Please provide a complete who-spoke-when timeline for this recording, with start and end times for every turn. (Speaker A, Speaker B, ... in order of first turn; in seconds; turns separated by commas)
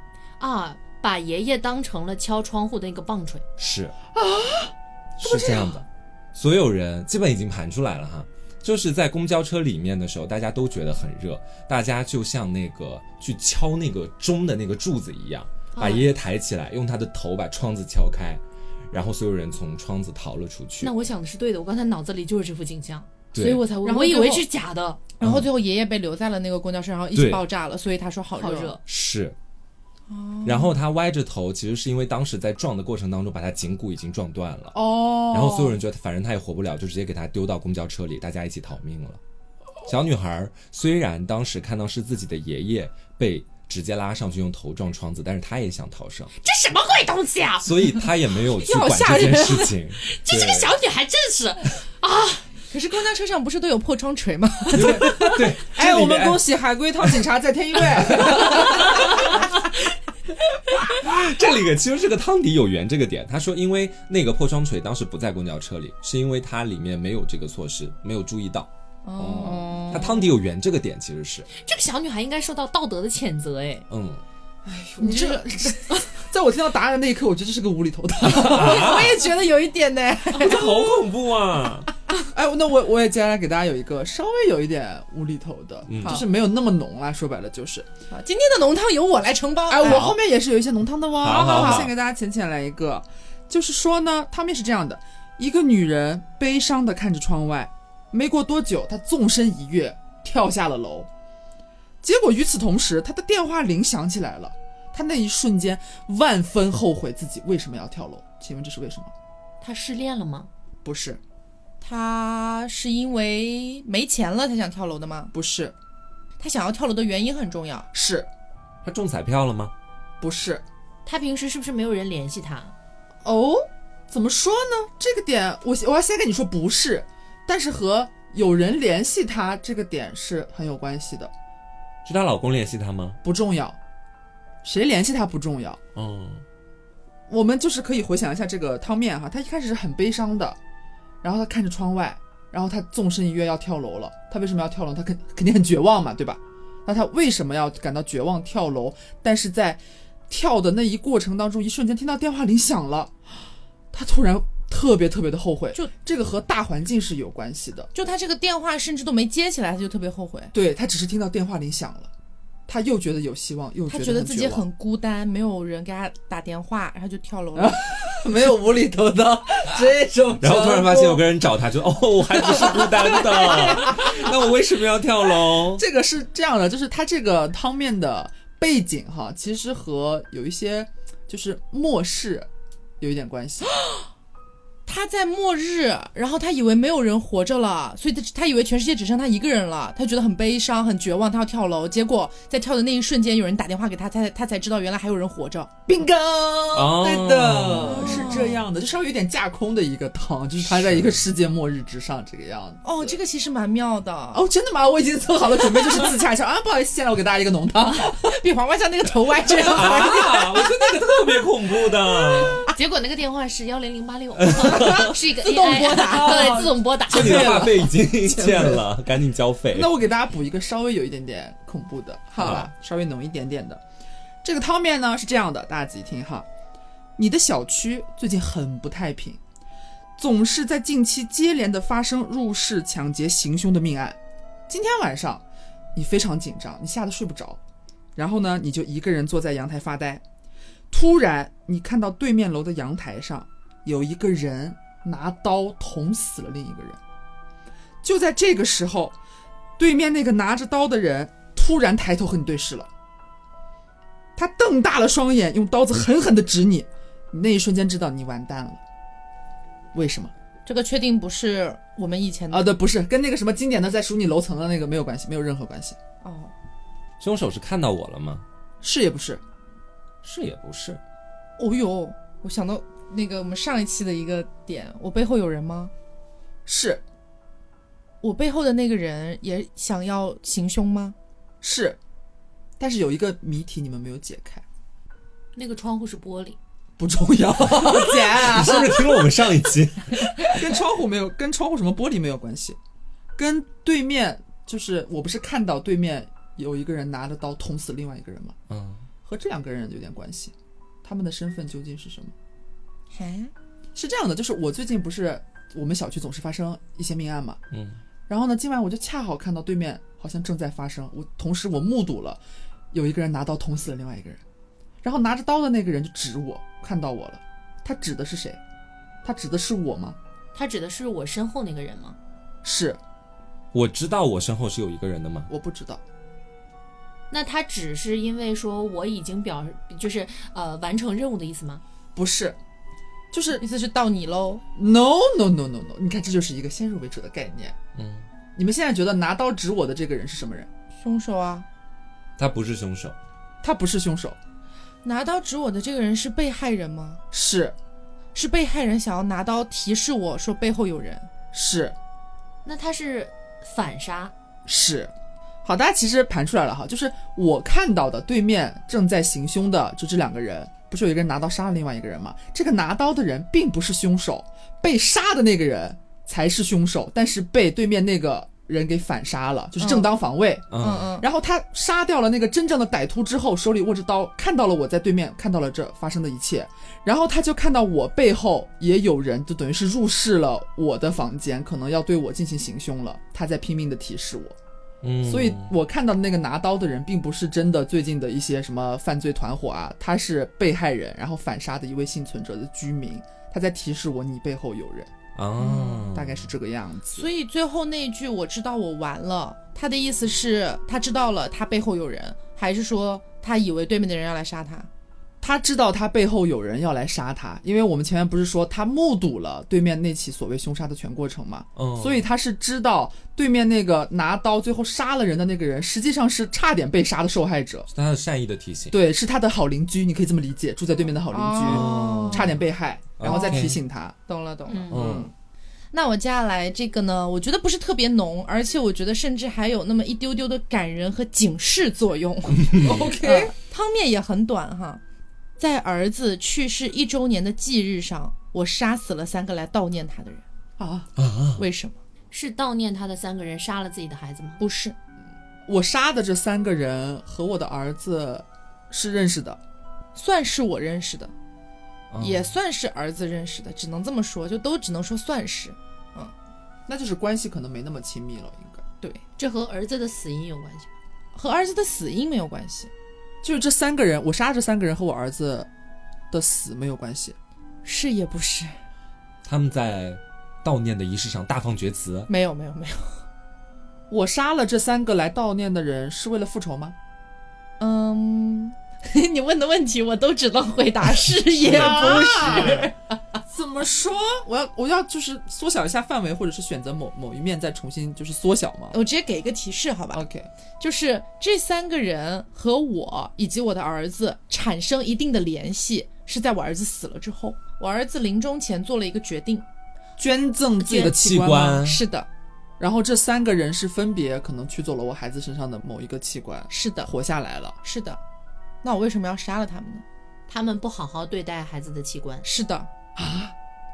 Speaker A: 0.4-3.4, Speaker B: 3.6-3.9, Speaker C: 4.1-5.8, Speaker B: 5.2-21.0, Speaker A: 15.7-16.1, Speaker A: 20.8-25.0, Speaker B: 23.3-23.6, Speaker D: 23.4-24.4, Speaker D: 25.2-28.8, Speaker B: 25.2-25.5, Speaker B: 27.1-27.4, Speaker A: 28.4-28.8, Speaker B: 28.9-29.4, Speaker D: 30.1-30.8, Speaker B: 30.4-39.2, Speaker C: 34.7-35.8, Speaker B: 39.9-46.3, Speaker A: 46.4-48.0, Speaker B: 47.6-50.7, Speaker D: 48.6-49.7, Speaker A: 50.1-52.5, Speaker D: 52.7-55.5, Speaker B: 54.7-56.5, Speaker C: 55.7-59.4, Speaker B: 57.8-59.1, Speaker B: 61.0-71.5, Speaker D: 69.0-70.2, Speaker A: 71.6-73.9, Speaker B: 73.9-74.2, Speaker C: 74.6-79.0, Speaker D: 75.0-76.0, Speaker B: 78.2-79.2, Speaker D: 78.2-80.9, Speaker B: 80.3-81.9, Speaker C: 82.3-87.9, Speaker B: 85.9-86.2, Speaker D: 88.1-90.1, Speaker C: 89.7-101.1, Speaker B: 89.8-90.2, Speaker B: 91.2-91.9, Speaker D: 91.2-91.9, Speaker C: 102.0-109.1, Speaker A: 109.6-110.5, Speaker C: 110.8-111.2, Speaker D: 111.8-115.3, Speaker C: 115.3-115.8, Speaker D: 116.4-117.9, Speaker C: 117.9-118.3, Speaker B: 118.8-119.7, Speaker C: 120.2-120.6, Speaker A: 121.1-122.7, Speaker C: 123.2-131.3, Speaker B: 132.1-133.2, Speaker C: 133.2-133.8, Speaker C: 134.6-135.8, Speaker B: 135.9-136.4, Speaker C: 137.3-140.6, Speaker C: 141.2-153.2, Speaker C: 153.9-157.9, Speaker D: 157.9-160.5, Speaker C: 160.5-162.1, Speaker C: 162.7-164.6, Speaker D: 163.9-168.0, Speaker C: 167.6-171.2, Speaker B: 170.4-175.8, Speaker C: 172.4-174.3, Speaker C: 175.7-182.5, Speaker C: 183.0-183.7, Speaker D: 184.9-195.7, Speaker C: 195.9-203.2, Speaker B: 196.7-198.6, Speaker D: 197.9-198.6, Speaker B: 200.7-201.2, Speaker D: 202.8-204.4, Speaker C: 204.3-208.3, Speaker D: 208.2-210.7, Speaker B: 209.5-212.7, Speaker A: 212.7-217.8, Speaker B: 214.4-215.1, Speaker D: 214.6-216.7, Speaker C: 215.9-218.8, Speaker B: 217.1-219.9, Speaker C: 219.7-223.8, Speaker B: 222.4-222.7, Speaker C: 224.4-226.5, Speaker C: 227.2-229.4, Speaker C: 230.2-234.2, Speaker C: 234.7-235.4, Speaker C: 235.9-237.6, Speaker C: 238.1-240.2, Speaker C: 240.9-247.0, Speaker C: 248.0-249.2, Speaker C: 249.8-252.9, Speaker C: 254.4-258.8, Speaker C: 259.9-260.3, Speaker D: 260.6-262.8, Speaker C: 262.5-266.0, Speaker D: 266.2-266.5, Speaker B: 267.2-268.4, Speaker C: 268.8-269.4, Speaker B: 270.2-271.0, Speaker D: 271.6-275.9, Speaker C: 276.6-277.0, Speaker D: 278.2-281.1, Speaker C: 281.6-282.0, Speaker C: 282.8-284.6, Speaker A: 285.6-286.6, Speaker C: 287.0-289.4, Speaker B: 287.7-290.6, Speaker C: 290.4-292.8, Speaker C: 293.4-298.6, Speaker B: 298.7-299.1, Speaker C: 299.2-300.5, Speaker C: 301.0-302.3, Speaker D: 303.1-303.5, Speaker C: 303.9-307.6, Speaker B: 307.7-308.0, Speaker C: 308.3-312.4, Speaker C: 312.9-314.4, Speaker C: 315.0-318.6, Speaker C: 319.2-320.2, Speaker A: 320.6-322.2, Speaker C: 322.6-323.0, Speaker B: 323.7-325.5, Speaker C: 325.5-326.0, Speaker A: 327.3-331.8, Speaker C: 332.1-332.6, Speaker C: 333.3-333.6, Speaker D: 333.6-334.6, Speaker C: 334.8-337.8, Speaker B: 337.9-338.3, Speaker C: 338.6-340.7, Speaker D: 341.0-341.6, Speaker B: 342.4-343.1, Speaker C: 343.6-344.4, Speaker D: 345.0-347.2, Speaker C: 347.3-347.8, Speaker D: 348.4-351.3, Speaker C: 351.5-351.9, Speaker A: 352.6-354.3, Speaker C: 354.6-355.1, Speaker C: 355.6-370.7, Speaker D: 369.8-370.1, Speaker B: 370.7-371.1, Speaker D: 370.8-371.3, Speaker C: 371.2-384.6, Speaker B: 385.0-385.7, Speaker C: 385.2-395.1, Speaker B: 395.4-396.5, Speaker D: 395.6-396.1, Speaker C: 396.1-397.3, Speaker D: 397.1-404.9, Speaker C: 405.4-417.9, Speaker B: 411.8-412.2, Speaker B: 417.9-419.0, Speaker C: 418.9-424.1, Speaker D: 421.3-422.6, Speaker B: 421.6-422.6, Speaker B: 423.2-423.8, Speaker D: 423.2-423.7, Speaker D: 424.3-425.2, Speaker A: 424.7-425.1, Speaker B: 424.9-425.3, Speaker C: 424.9-425.3, Speaker D: 425.9-435.0, Speaker C: 432.8-433.5, Speaker D: 435.6-440.4, Speaker C: 440.8-441.1, Speaker B: 441.2-441.6, Speaker D: 441.6-442.0, Speaker A: 442.3-444.6, Speaker D: 444.6-444.9, Speaker C: 445.6-449.6, Speaker D: 450.1-451.3, Speaker B: 452.1-452.5, Speaker D: 452.2-456.3, Speaker C: 456.9-458.8, Speaker A: 459.4-460.9, Speaker D: 461.4-462.9, Speaker C: 463.4-465.7, Speaker C: 466.3-467.4, Speaker D: 467.9-468.8, Speaker B: 469.4-472.3, Speaker D: 472.3-473.2, Speaker C: 474.1-476.9, Speaker D: 477.8-482.9, Speaker C: 481.6-482.9, Speaker B: 481.6-482.9, Speaker C: 483.5-489.0, Speaker D: 488.9-490.2, Speaker C: 490.1-490.5, Speaker D: 490.8-499.6, Speaker C: 500.2-501.9, Speaker B: 500.9-502.0, Speaker D: 501.9-502.3, Speaker C: 502.8-507.8, Speaker D: 506.7-507.1, Speaker D: 507.8-508.2, Speaker D: 508.8-510.0, Speaker A: 510.5-512.4, Speaker D: 512.4-512.9, Speaker C: 513.2-513.5